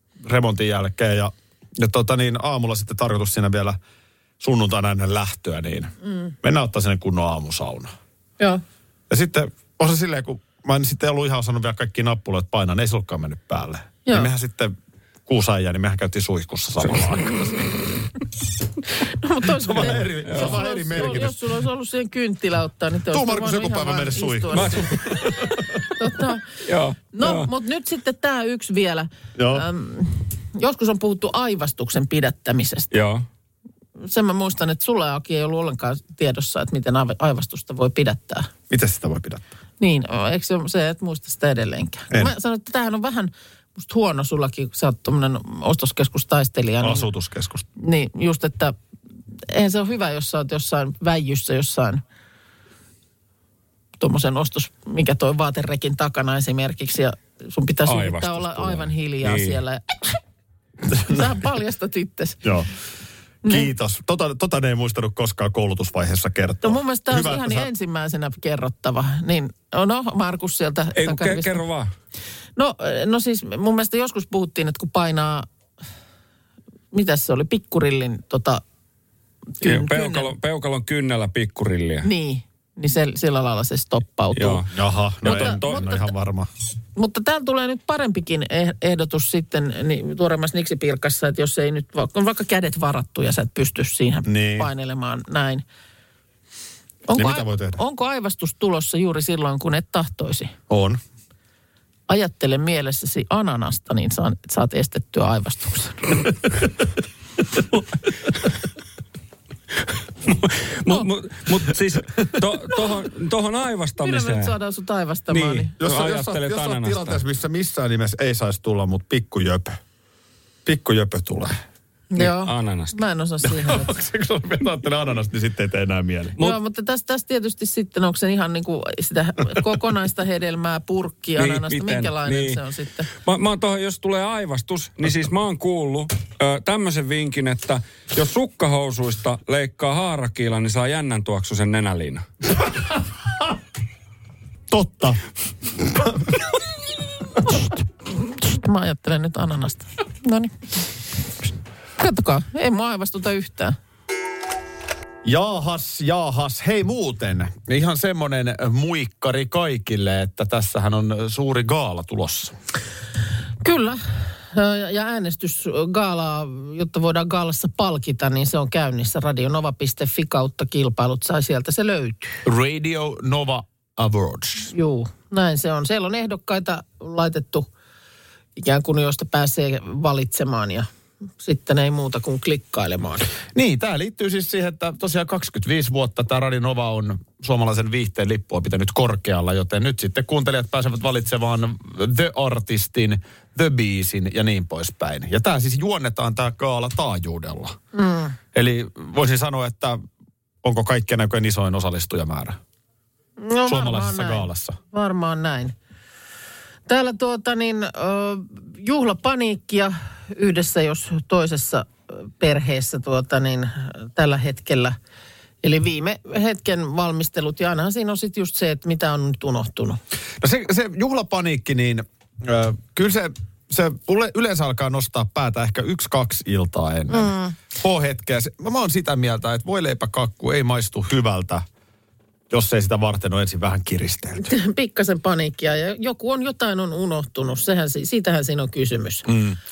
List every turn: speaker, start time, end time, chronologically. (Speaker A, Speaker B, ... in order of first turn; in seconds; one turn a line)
Speaker A: 0.2-3.8
Speaker A: 4.4-7.9
Speaker A: 9.1-14.7
Speaker A: 15.3-17.6
Speaker B: 19.0-25.2
Speaker A: 19.5-21.4
Speaker C: 20.2-21.2
Speaker A: 23.1-25.6
Speaker C: 24.5-25.1
Speaker B: 25.9-26.5
Speaker C: 26.6-27.5
Speaker B: 27.1-32.9
Speaker A: 29.4-29.7
Speaker C: 32.9-33.2
Speaker B: 34.0-38.5
Speaker A: 38.7-39.5
Speaker B: 39.8-47.1
Speaker A: 46.8-47.7
Speaker B: 47.8-48.8
Speaker B: 49.5-52.0
Speaker B: 54.0-60.2
Speaker C: 57.9-59.6
Speaker B: 60.9-62.5
Speaker A: 60.9-61.3
Speaker A: 62.4-62.7
Speaker A: 63.4-67.7
Speaker B: 63.5-63.7
Speaker B: 66.6-71.6
Speaker C: 71.0-71.9
Speaker B: 72.6-75.5
Speaker B: 76.9-78.6
Speaker B: 79.6-80.3
Speaker C: 79.6-82.1
Speaker B: 82.0-84.6
Speaker C: 84.3-84.7
Speaker A: 84.7-86.5
Speaker C: 85.2-85.9
Speaker B: 85.2-86.1
Speaker B: 87.0-95.6
Speaker A: 94.3-94.7
Speaker B: 97.1-100.5
Speaker A: 97.2-97.8
Speaker A: 100.7-101.0
Speaker B: 102.1-106.3
Speaker C: 110.2-114.5
Speaker B: 114.0-115.7
Speaker C: 115.3-117.2
Speaker A: 115.8-119.8
Speaker A: 120.7-121.6
Speaker B: 122.1-124.0
Speaker C: 122.2-123.0
Speaker A: 123.4-126.4
Speaker B: 126.4-133.1
Speaker C: 131.4-132.6
Speaker C: 133.2-142.3
Speaker A: 144.7-145.2
Speaker B: 147.4-150.5
Speaker B: 152.0-153.8
Speaker A: 155.2-162.5
Speaker B: 163.6-172.4
Speaker A: 172.4-174.7
Speaker B: 174.7-177.7
Speaker B: 178.6-180.9
Speaker B: 181.4-183.3
Speaker A: 183.5-197.8
Speaker B: 197.9-198.4
Speaker A: 198.5-200.0
Speaker A: 200.6-202.6
Speaker B: 203.4-205.7
Speaker A: 203.7-204.8
Speaker B: 206.9-215.0
Speaker B: 215.6-220.0
Speaker A: 220.4-231.7
Speaker B: 227.1-227.6
Speaker A: 232.5-234.5
Speaker B: 234.4-239.3
Speaker A: 239.3-239.6